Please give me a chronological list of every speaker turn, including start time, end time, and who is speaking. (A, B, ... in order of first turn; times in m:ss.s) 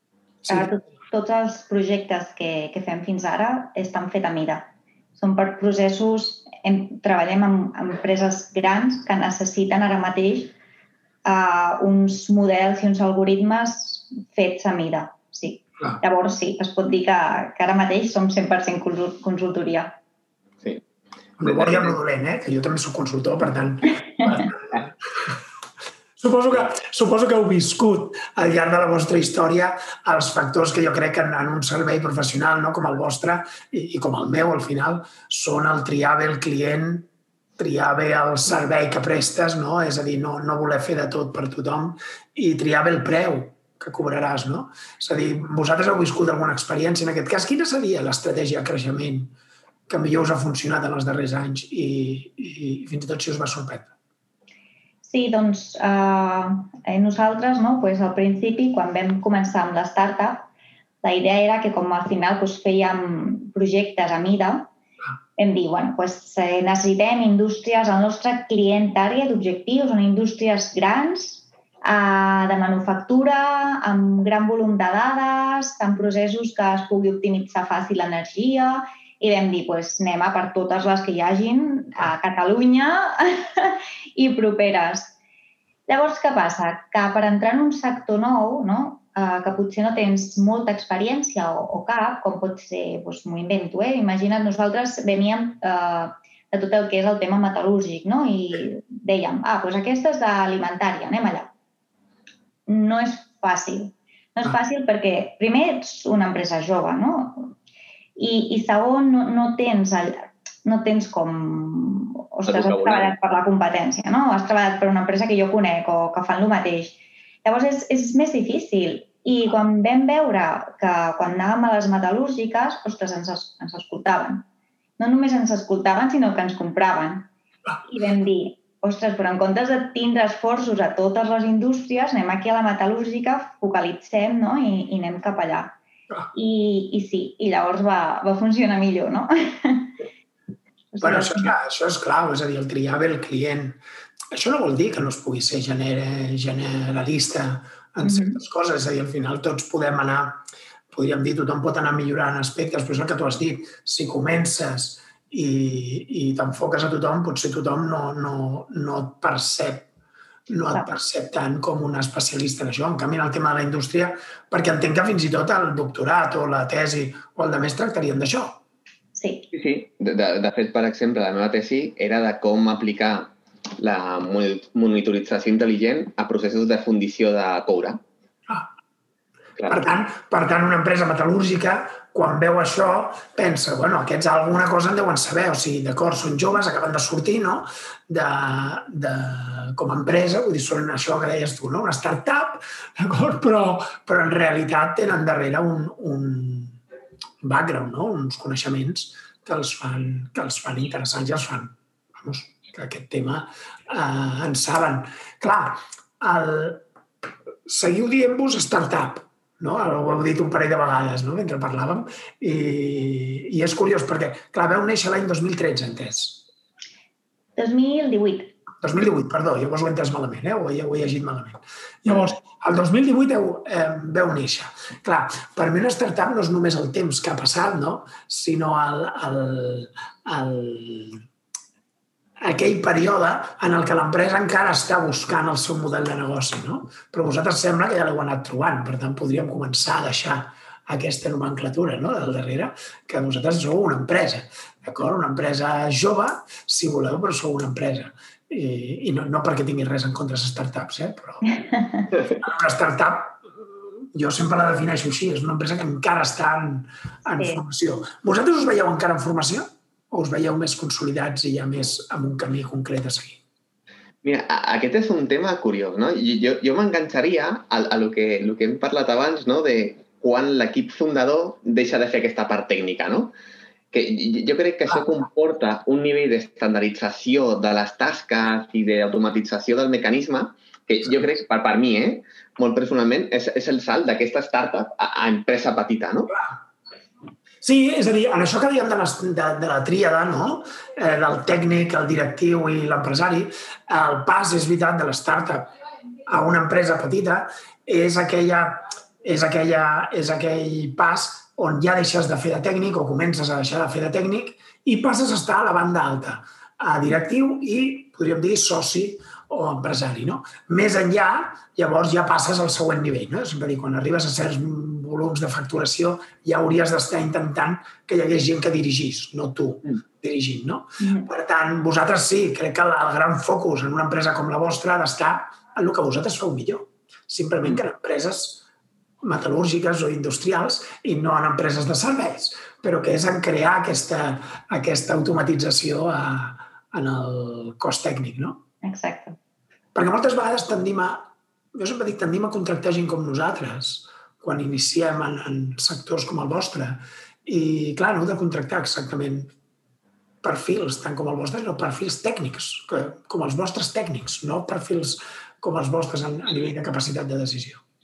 0:00.4-0:00.7 A
0:00.5-0:10.5 B
0:11.2-0:20.0 B
0:21.4-0:22.0 C
0:21.4-0:24.9 A
0:26.2-0:49.3 A
0:49.9-0:53.9 A
0:55.0-1:00.5 B
1:01.0-1:04.7 B
1:05.4-1:25.1 B
1:25.9-1:41.5 B
1:42.7-1:47.6 B
1:48.2-2:04.4 B
1:52.4-1:53.1 C
2:05.0-2:07.3 B
2:07.8-2:15.8 B
2:16.3-2:20.0 B
2:20.9-2:21.5 B
2:21.0-2:23.8 A
2:24.3-2:39.9 A
2:28.0-2:28.4 B
2:40.5-2:48.6 A
2:40.7-2:40.9 B
2:49.1-2:49.5 B
2:49.5-2:58.0 C
2:59.6-2:59.9 C
2:59.7-3:16.8 A
3:17.4-3:26.8 A
3:27.7-3:36.4 A
3:37.6-3:38.5 B
3:38.8-3:51.2 A
3:52.4-4:11.4 A
4:11.7-4:12.1 B
4:12.3-4:13.4 A
4:14.1-4:23.4 A
4:17.3-4:17.6 B
4:24.2-4:33.3 C
4:33.9-4:46.3 C
4:47.6-4:55.7 A
4:56.3-5:28.6 A
5:21.0-5:21.3 B
5:29.2-5:38.6 A
5:38.8-5:39.4 B
5:39.9-5:49.5 A
5:50.4-5:57.8 A